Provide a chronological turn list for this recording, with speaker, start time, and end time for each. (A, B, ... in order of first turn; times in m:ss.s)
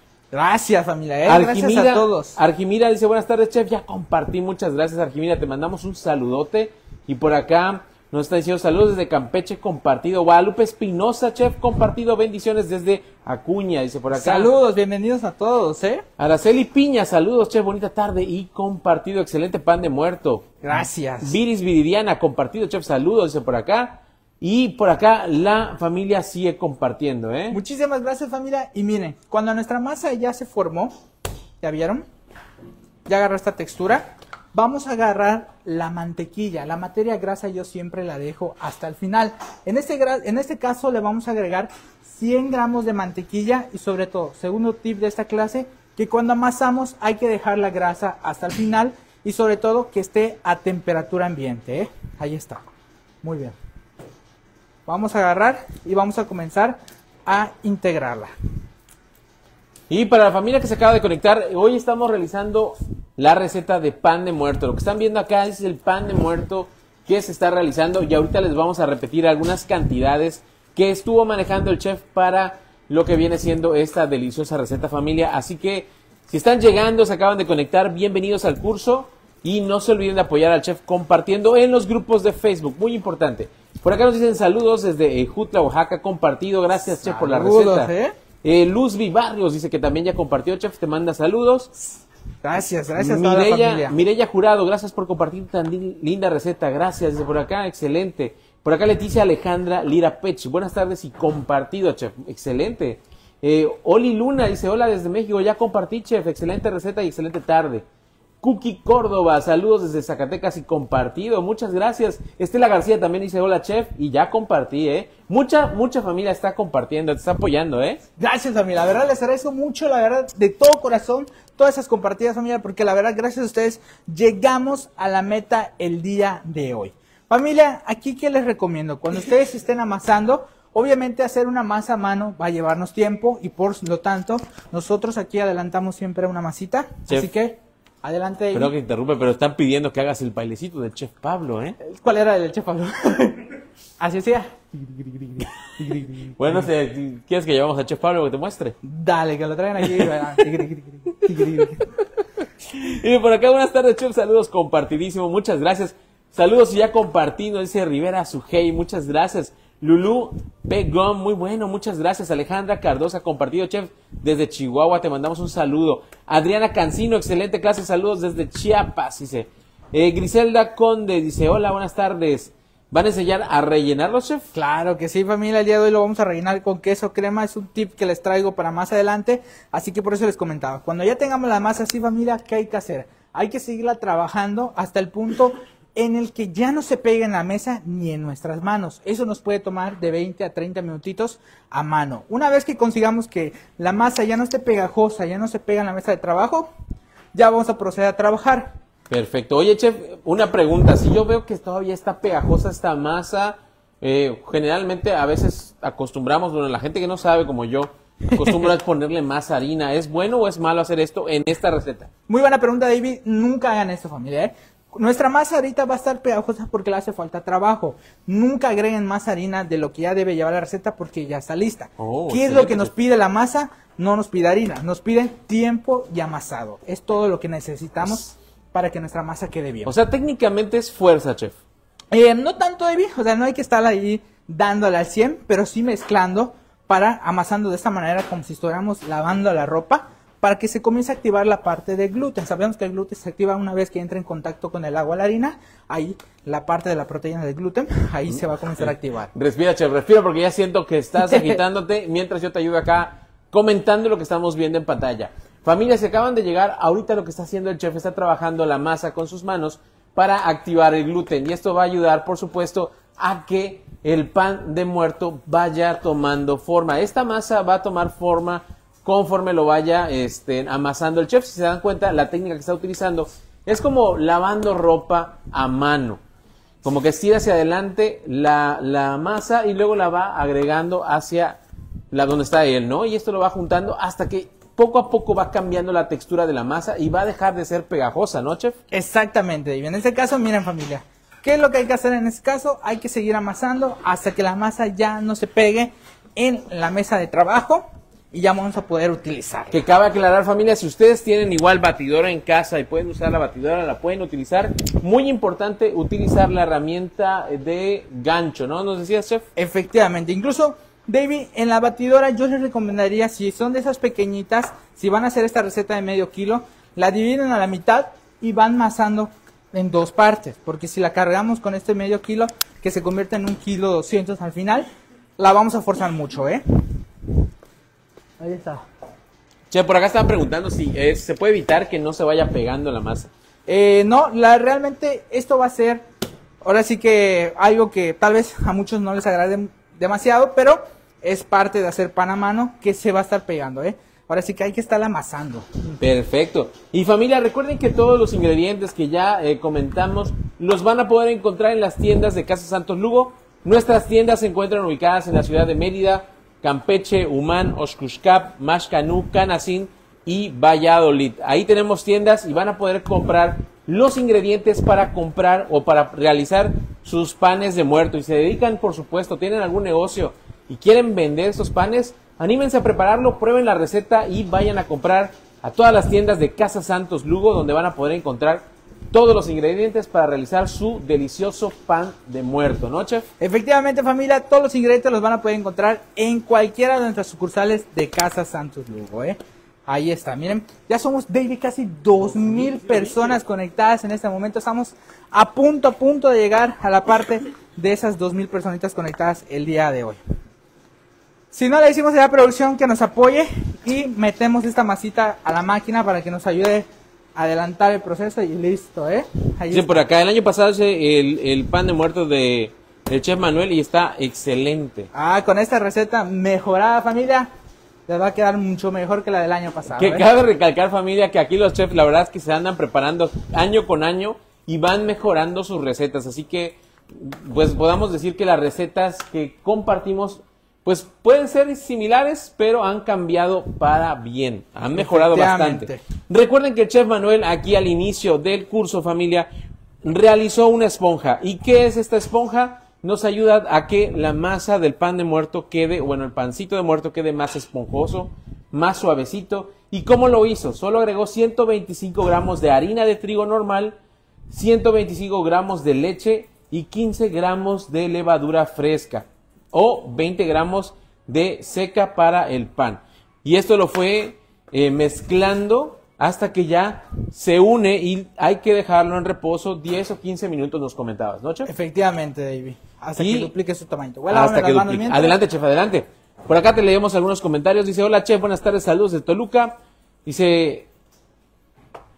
0:00.3-0:02.4 A
0:01.3-0:14.5 B
0:14.1-0:16.0 A
0:16.2-0:20.5 B
0:20.6-0:21.4 A
0:21.2-0:27.6 B
0:27.5-0:30.9 A
0:31.6-0:32.0 A
0:33.1-0:52.6 A
0:53.2-0:53.6 A
0:54.9-0:58.3 A
0:59.9-1:27.9 B
1:26.9-1:28.1 A
1:28.4-1:31.7 B
1:32.4-1:34.0 A
1:33.0-1:47.8 B
1:48.4-1:58.0 B
1:58.2-2:18.7 A
2:18.5-2:21.8 B
2:21.8-2:26.7 A
2:26.2-2:28.8 B
2:28.8-2:31.9 A
2:32.6-2:54.5 B
2:54.5-3:16.7 A
3:17.3-3:18.8 A
3:19.1-3:32.1 B
3:32.3-3:50.0 A
3:42.0-3:42.9 B
3:49.9-3:51.6 B
3:52.1-4:09.3 A
4:08.8-4:36.2 B
4:11.2-4:11.6 A
4:36.8-4:41.6 B
4:42.1-4:48.8 B
4:48.9-4:59.8 A
4:59.7-5:09.4 B
5:09.6-5:24.9 A
5:25.4-5:26.6 A
5:28.4-5:28.8 A
5:29.7-5:33.3 B
5:33.7-5:36.1 A
5:36.6-5:46.0 A
5:46.0-6:23.3 B
6:23.4-6:40.2 A
6:32.6-6:33.1 B
6:41.5-6:50.0 A
6:49.7-6:55.1 B
6:55.1-6:57.5 A
6:58.1-7:00.3 A
7:00.0-7:19.5 B
7:14.9-7:16.0 A
7:20.0-7:34.0 B
7:34.5-7:51.7 B
7:51.7-7:55.4 A
7:53.2-7:53.5 B
7:54.3-8:00.9 B